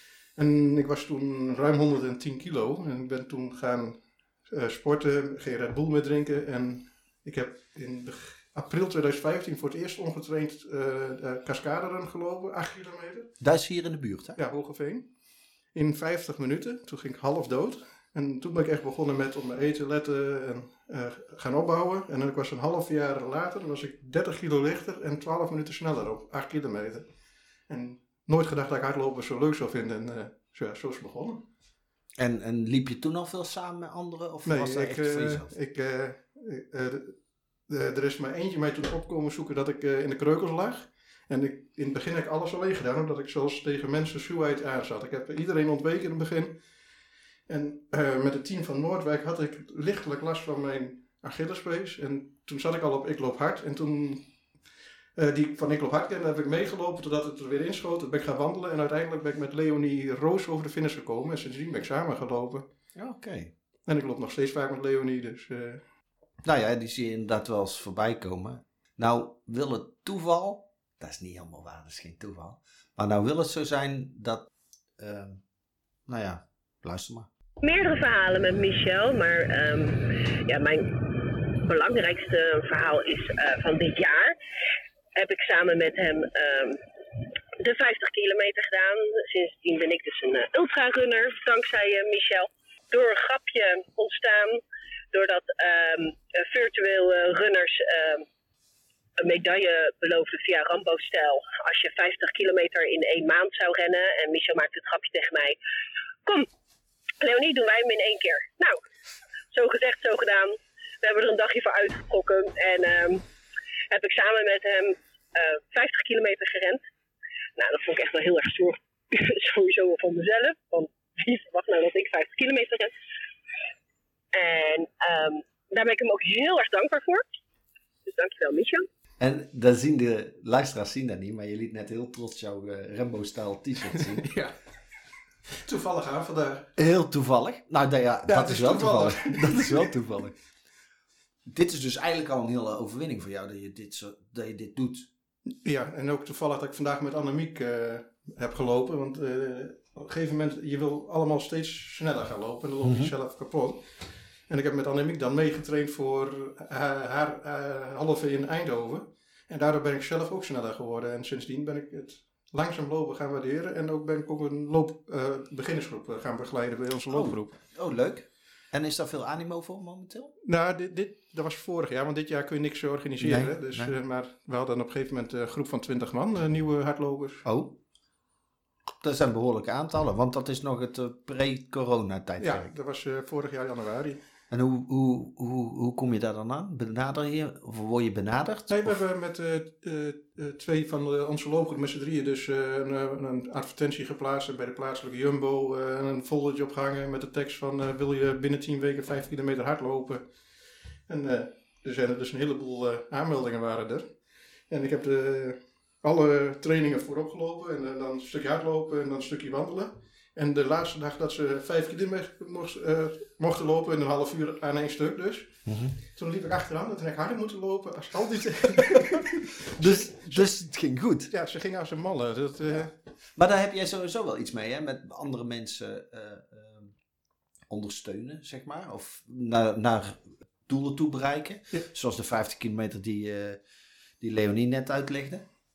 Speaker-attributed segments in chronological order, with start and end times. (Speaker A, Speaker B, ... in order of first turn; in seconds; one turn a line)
Speaker A: 0.3-4.0
Speaker A: 4.5-13.3
Speaker B: 13.4-14.4
Speaker A: 14.3-15.1
Speaker A: 15.7-27.1
Speaker A: 27.7-31.5
Speaker B: 32.2-35.5
Speaker A: 34.4-37.1
Speaker A: 37.7-46.6
Speaker A: 47.5-54.3
Speaker A: 55.1-62.6
Speaker B: 63.0-63.5
Speaker A: 63.9-65.8
Speaker B: 66.4-75.4
Speaker B: 76.1-77.3
Speaker C: 77.6-84.4
Speaker C: 85.1-98.2
Speaker C: 99.2-105.6
Speaker C: 106.2-106.5
Speaker C: 107.2-108.8
Speaker C: 109.5-113.2
Speaker C: 113.9-116.8
Speaker C: 117.5-122.9
Speaker C: 124.3-127.2
Speaker C: 128.1-128.8
Speaker B: 129.2-134.3
Speaker A: 134.2-134.5
Speaker A: 135.6-136.7
Speaker B: 136.8-140.3
Speaker A: 138.3-139.9
Speaker B: 141.4-145.1
Speaker A: 145.6-153.8
Speaker B: 152.8-153.1
Speaker A: 154.5-167.6
Speaker B: 167.1-170.3
Speaker A: 170.4-177.4
Speaker B: 173.2-173.9
Speaker B: 177.4-177.8
Speaker B: 179.0-182.7
Speaker A: 182.4-184.2
Speaker B: 184.5-188.9
Speaker A: 188.7-200.2
Speaker A: 201.1-204.1
Speaker A: 204.7-215.6
Speaker B: 215.7-216.0
Speaker A: 216.1-220.5
Speaker B: 219.6-221.3
Speaker A: 221.3-222.9
Speaker B: 223.3-226.9
Speaker B: 227.7-233.6
Speaker B: 234.2-235.4